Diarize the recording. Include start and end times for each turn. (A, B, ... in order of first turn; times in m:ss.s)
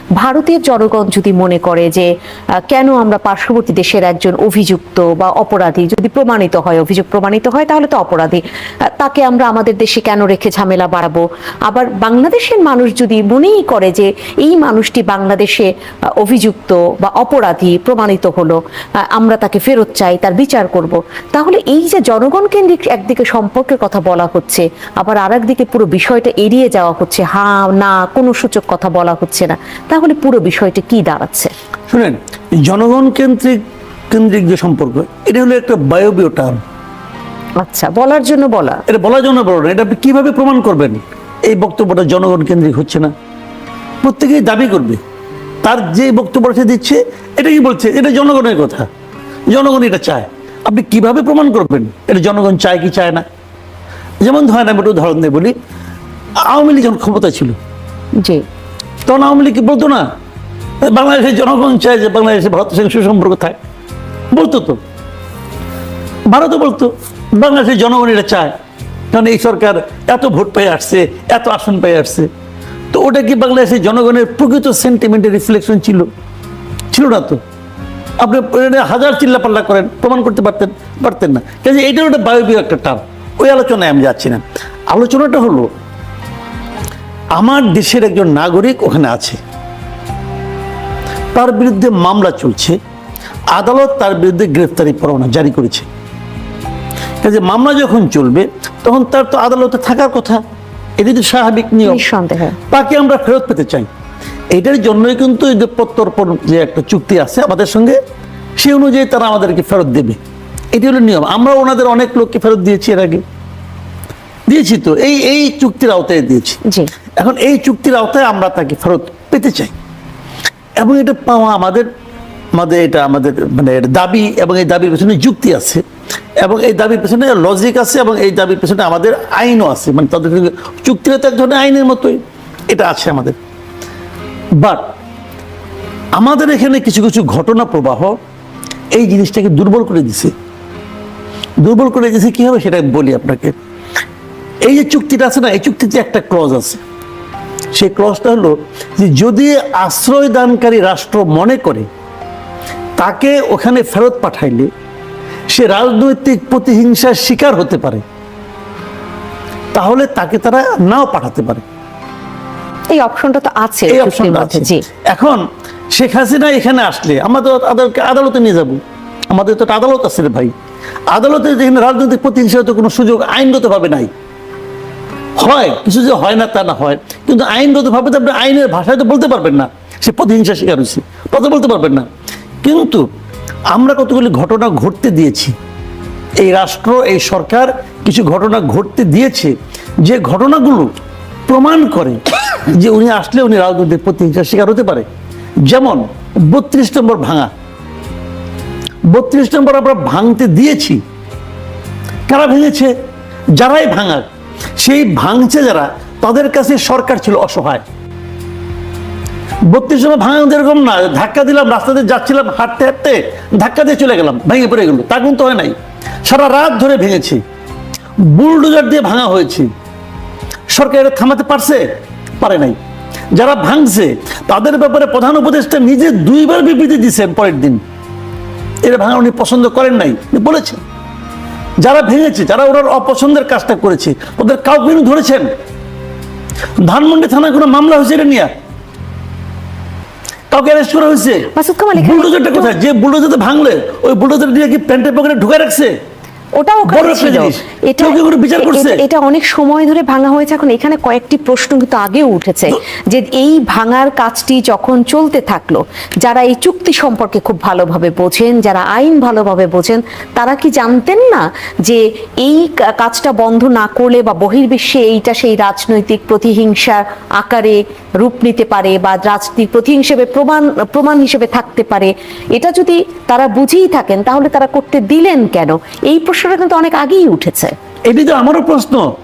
0:00.2-0:02.1 A
0:02.7-0:18.6 A
0:19.1-0:31.5 A
0:31.9-0:33.6 B
0:34.1-0:36.6 B
0:37.6-0:38.8 A
0:38.9-0:43.1 B
0:44.0-0:45.0 B
0:45.6-0:48.9 B
0:49.5-0:53.2 B
0:54.2-0:55.5 B
0:56.5-0:57.6 B
0:58.2-0:58.4 A
0:59.0-1:00.1 B
1:00.8-1:03.6 B
1:04.3-1:04.8 B
1:06.3-1:08.5 B
1:09.1-1:12.3 B
1:12.9-1:16.1 B
1:16.9-1:17.4 B
1:18.2-1:25.7 B
1:27.4-1:29.4 B
1:31.3-1:32.8 B
1:33.5-1:35.9 B
1:37.2-1:40.4 B
1:41.0-1:42.0 B
1:41.8-1:42.6 A
1:42.7-1:43.9 B
1:44.5-1:48.0 B
1:48.6-1:50.2 B
1:50.7-1:53.2 B
1:54.5-1:56.6 B
1:57.2-1:59.7 B
2:00.8-2:01.9 B
2:02.5-2:05.8 B
2:06.4-2:13.4 B
2:14.6-2:15.0 B
2:16.1-2:18.2 B
2:18.9-2:20.3 B
2:21.6-2:23.5 B
2:24.6-2:26.8 B
2:27.7-2:31.9 B
2:33.0-2:34.7 B
2:35.5-2:38.0 B
2:39.7-2:41.6 B
2:42.9-2:44.8 A
2:43.9-2:45.4 B
2:45.9-2:48.8 B
2:49.3-2:50.5 B
2:51.1-2:54.1 B
2:55.4-3:02.1 B
3:02.6-3:03.1 B
3:03.7-3:05.5 B
3:06.4-3:10.9 B
3:11.5-3:15.1 B
3:15.7-3:17.5 B
3:19.1-3:21.0 B
3:22.3-3:22.9 B
3:23.6-3:24.3 B
3:24.8-3:27.8 B
3:29.7-3:37.4 B
3:38.2-3:39.7 B
3:40.7-3:41.8 B
3:42.4-3:42.8 B
3:43.3-3:47.8 B
3:48.8-3:50.8 B
3:51.8-3:55.5 B
3:56.8-3:58.5 B
4:00.5-4:05.9 B
4:01.5-4:02.7 A
4:06.6-4:37.7 A
4:06.9-4:09.0 B
4:38.1-4:39.1 B